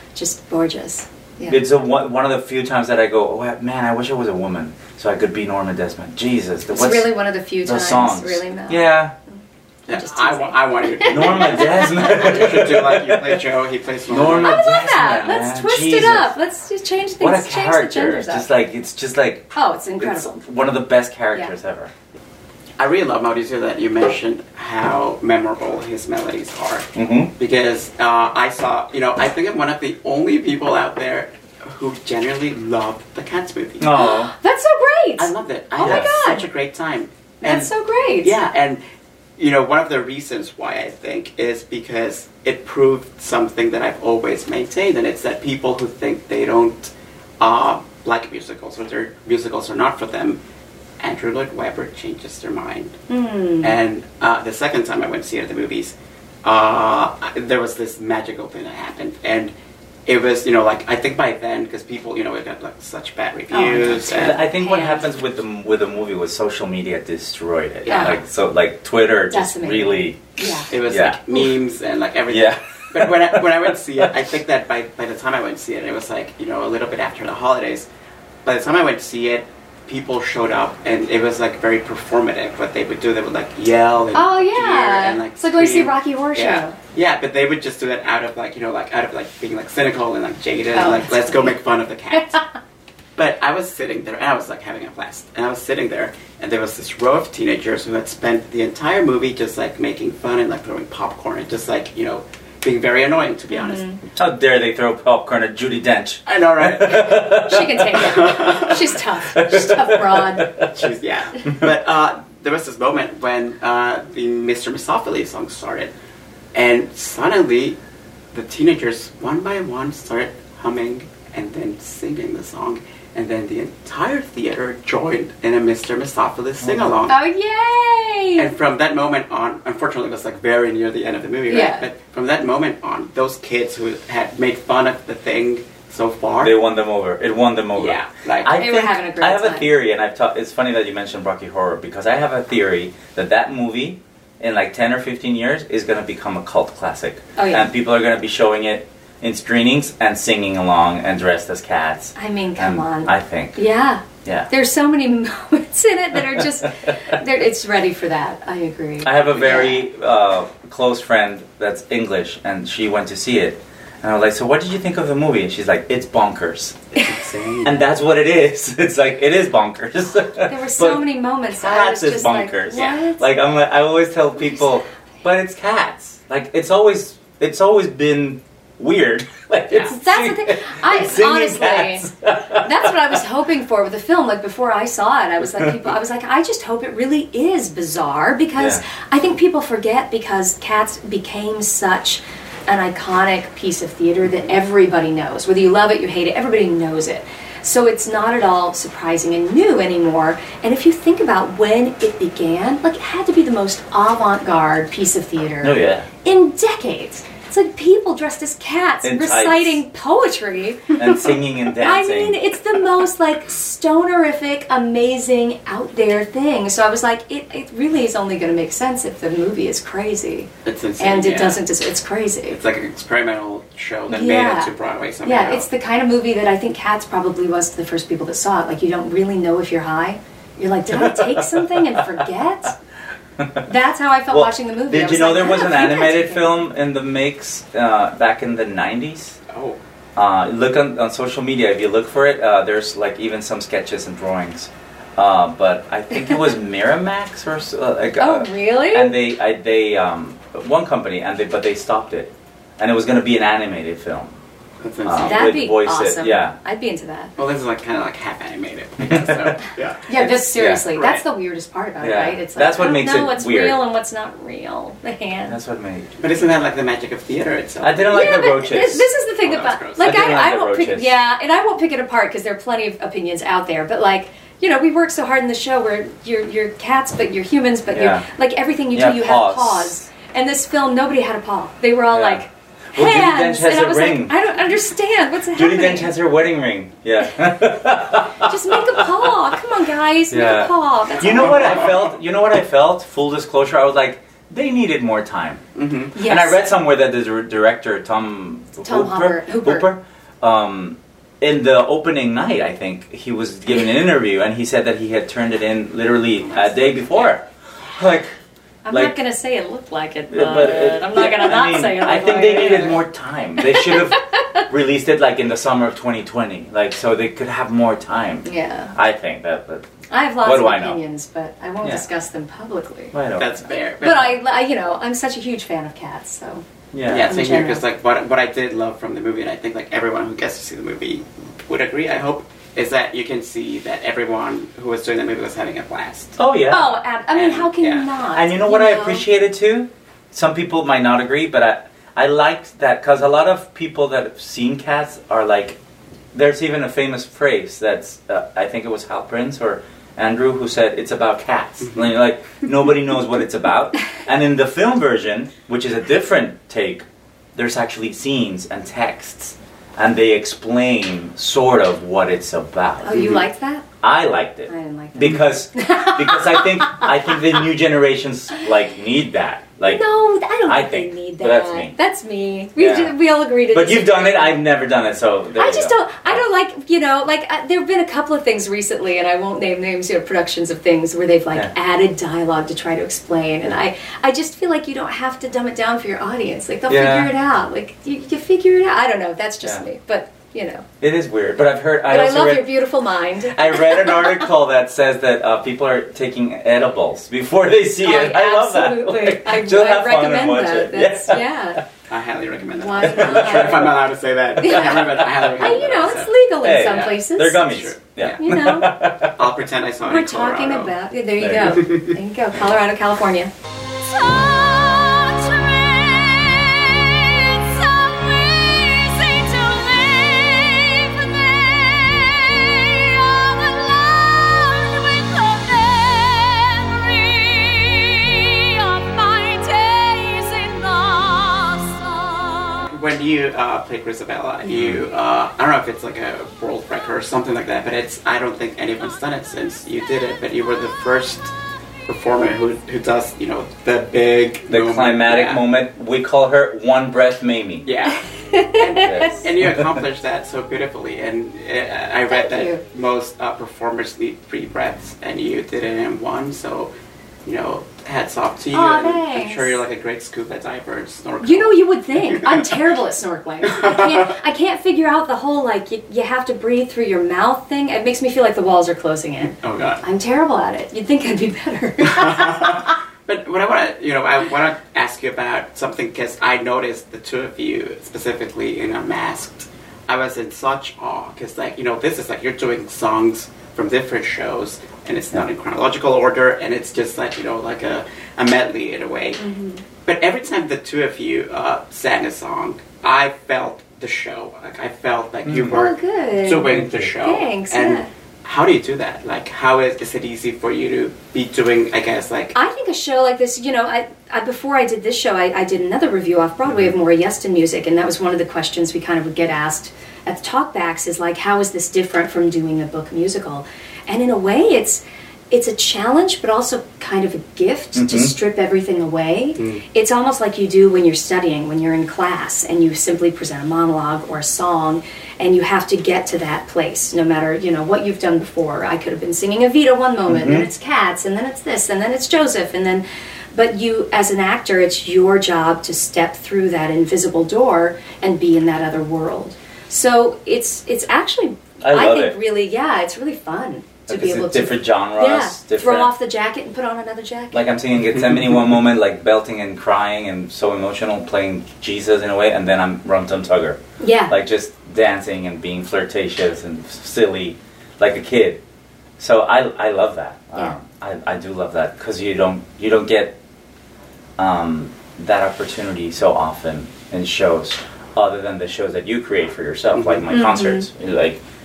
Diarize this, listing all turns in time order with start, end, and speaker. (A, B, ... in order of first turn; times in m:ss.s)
0:00.2-0:01.6 A
0:01.5-0:07.1 B
0:06.7-0:09.0 A
0:07.6-0:09.2 B
0:09.9-0:12.1 A
0:09.9-0:14.6 C
0:11.1-0:13.4 B
0:14.1-0:16.3 B
0:14.3-0:18.5 A
0:17.2-0:21.9 B
0:19.5-0:20.4 A
0:22.8-0:34.0 C
0:27.0-0:27.3 B
0:33.8-0:34.3 B
0:34.0-0:36.5 A
0:35.2-0:37.7 C
0:35.8-0:36.2 B
0:37.4-0:38.3 A
0:38.2-0:38.8 C
0:39.4-0:50.4 C
0:51.0-0:53.0 C
0:53.1-0:53.8 A
0:53.6-0:59.5 C
1:00.1-1:04.4 C
1:03.5-1:05.0 A
1:04.1-1:11.2 B
1:07.8-1:08.2 C
1:07.9-1:08.2 A
1:09.3-1:10.7 A
1:10.7-1:17.9 C
1:12.3-1:14.1 B
1:18.4-1:32.4 C
1:24.1-1:26.8 A
1:30.7-1:31.5 A
1:32.1-1:32.4 A
1:33.2-1:43.9 C
1:43.5-1:44.0 A
1:44.2-1:48.2 B
1:46.3-1:47.4 C
1:47.2-1:50.5 A
1:47.9-1:48.8 C
1:49.3-1:50.7 B
1:50.7-1:55.9 C
1:56.5-1:57.8 C
1:58.3-2:07.2 C
2:06.6-2:07.0 B
2:07.1-2:08.5 A
2:08.4-2:16.6 C
2:11.5-2:11.9 A
2:16.4-2:33.6 B
2:17.8-2:18.5 C
2:18.6-2:19.7 A
2:27.4-2:27.7 A
2:32.2-2:39.8 A
2:34.2-2:34.5 B
2:36.2-2:37.2 B
2:39.0-2:47.0 B
2:47.1-2:47.7 C
2:47.6-3:03.2 B
2:50.4-2:53.2 A
2:52.8-2:53.0 C
2:59.8-3:02.0 A
3:02.6-3:42.6 A
3:05.4-3:05.9 B
3:08.6-3:08.8 B
3:25.6-3:26.1 B
3:29.0-3:29.8 B
3:30.9-3:32.4 B
3:40.6-3:41.6 C
3:42.5-3:45.7 C
3:44.1-3:44.7 A
3:45.2-3:52.8 A
3:50.9-3:52.3 B
3:53.4-3:53.6 B
3:53.6-3:56.5 A
3:54.3-3:59.4 B
3:59.5-3:59.8 C
4:00.2-4:14.4 B
4:08.2-4:09.2 A
4:14.8-4:15.5 C
4:15.0-4:16.6 B
4:15.2-4:17.3 A
4:17.4-4:20.1 C
4:19.0-4:19.6 B
4:20.0-4:25.6 A
4:20.2-4:20.9 B
4:20.9-4:21.2 C
4:22.0-4:23.8 B
4:25.5-4:26.1 B
4:26.2-4:28.4 C
4:27.8-4:29.1 B
4:28.1-4:46.1 A
4:29.4-4:30.2 C
4:30.0-4:31.2 B
4:37.9-4:38.3 B
4:38.9-4:40.1 B
4:42.1-4:44.4 B
4:45.5-4:49.3 B
4:48.4-4:51.9 A
4:50.3-4:55.6 B
4:51.2-4:52.0 C
4:55.8-4:56.1 C
4:56.1-4:56.6 A
4:56.2-5:08.4 B
4:58.8-4:59.9 A
5:06.6-5:07.3 C
5:08.8-5:13.0 A
5:10.3-5:19.9 B
5:13.6-5:14.7 A
5:18.4-5:18.9 A
5:20.1-5:23.1 A
5:20.4-5:21.0 B
5:23.1-5:23.5 B
5:23.4-5:24.4 C
5:24.0-5:26.6 A
5:26.9-5:27.4 B
5:27.1-5:36.4 C
5:27.2-5:27.8 A
5:36.4-5:37.0 B
5:36.7-5:39.2 A
5:37.3-5:38.1 C
5:38.3-5:45.8 B
5:46.3-6:03.3 B
5:51.8-5:52.1 C
6:03.0-6:03.8 A
6:03.1-6:03.4 C
6:04.0-6:10.0 B
6:04.7-6:07.4 A
6:09.8-6:14.6 A
6:10.6-6:12.0 B
6:12.8-6:16.4 B
6:15.6-6:30.9 A
6:26.9-6:27.3 B
6:31.0-6:32.8 B
6:32.1-6:34.4 A
6:33.4-6:41.8 B
6:38.0-6:41.8 A
6:42.1-6:48.3 C
6:42.8-6:44.0 A
6:43.0-6:43.9 B
6:44.6-6:48.9 A
6:44.6-6:45.5 B
6:46.6-6:49.5 B
6:49.3-6:50.9 C
6:50.0-6:53.5 A
6:51.4-6:51.8 B
6:51.7-6:52.1 C
6:54.1-6:56.4 A
6:57.3-7:12.8 A
7:12.9-7:21.5 C
7:14.8-7:15.1 B
7:22.1-7:25.6 C
7:24.7-7:27.9 B
7:27.9-7:36.9 C
7:28.3-7:29.4 A
7:28.9-7:30.0 B
7:32.3-7:32.8 A
7:37.4-7:42.8 C
7:38.7-7:39.8 A
7:41.4-7:52.9 A
7:43.6-7:44.3 C
7:49.5-7:50.0 C
7:52.0-8:09.4 C
8:09.4-8:09.8 A
8:10.0-8:22.5 C
8:15.4-8:15.8 B
8:15.7-8:18.1 A
8:16.8-8:17.0 B
8:22.5-9:07.6 A
8:38.0-8:38.3 B
8:50.3-8:50.7 B
9:01.8-9:02.4 B
9:04.1-9:06.1 B
9:07.5-9:18.6 B
9:08.1-9:08.6 C
9:14.0-9:14.4 A
9:19.2-9:23.4 B
9:24.4-9:31.4 B
9:30.0-9:30.2 C
9:30.3-9:30.9 A